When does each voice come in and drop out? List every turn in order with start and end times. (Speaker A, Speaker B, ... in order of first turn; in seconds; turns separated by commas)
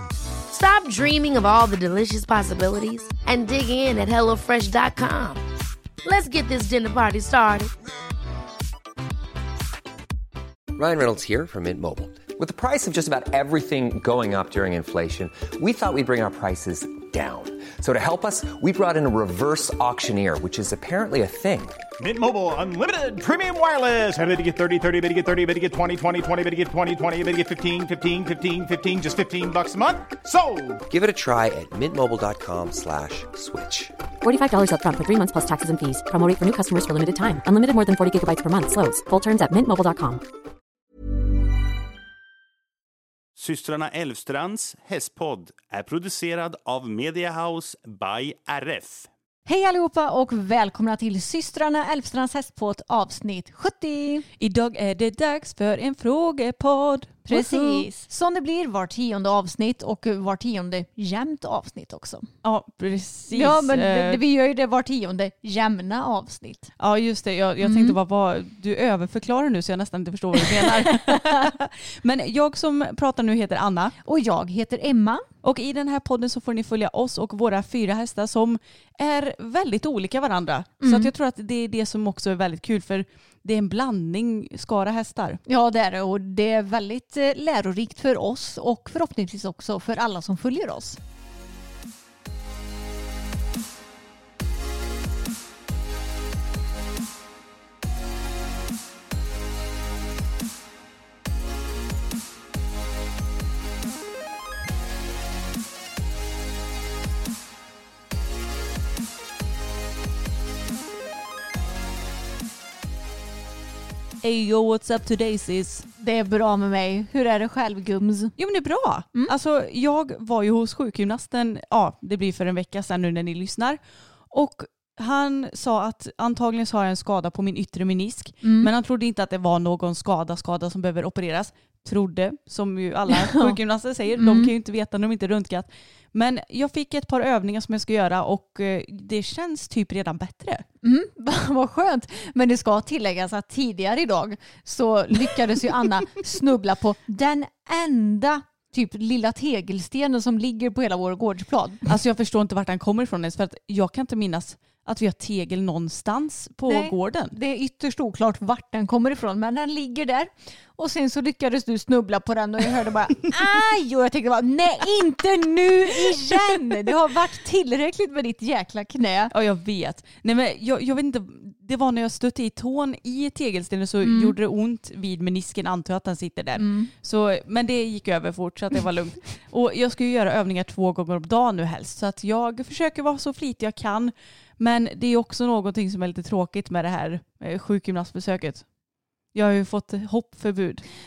Speaker A: 0.5-5.4, Speaker A: 6.0-7.7, Speaker B: 10.7-21.8, Speaker C: 22.0-30.8, Speaker B: 30.9-33.9, Speaker D: 34.2-40.2, Speaker E: 43.4-49.1, Speaker F: 49.5-54.2, Speaker G: 54.4-57.9, Speaker F: 57.3-62.3, Speaker G: 62.4-64.2, Speaker F: 63.3-66.7, Speaker G: 66.8-74.0, Speaker F: 67.6-68.0, Speaker F: 70.4-71.5, Speaker F: 74.0-75.2, Speaker G: 75.4-85.4, Speaker F: 80.8-81.1, Speaker F: 85.5-91.0, Speaker G: 114.2-115.9, Speaker F: 116.0-118.3, Speaker G: 118.4-123.8, Speaker G: 124.3-140.6, Speaker F: 128.4-128.7, Speaker F: 133.1-133.6, Speaker F: 134.1-134.5, Speaker F: 140.8-151.9, Speaker G: 151.9-157.3, Speaker F: 156.7-169.3, Speaker G: 169.3-188.6, Speaker F: 174.0-174.3, Speaker F: 176.6-176.9, Speaker G: 189.3-190.8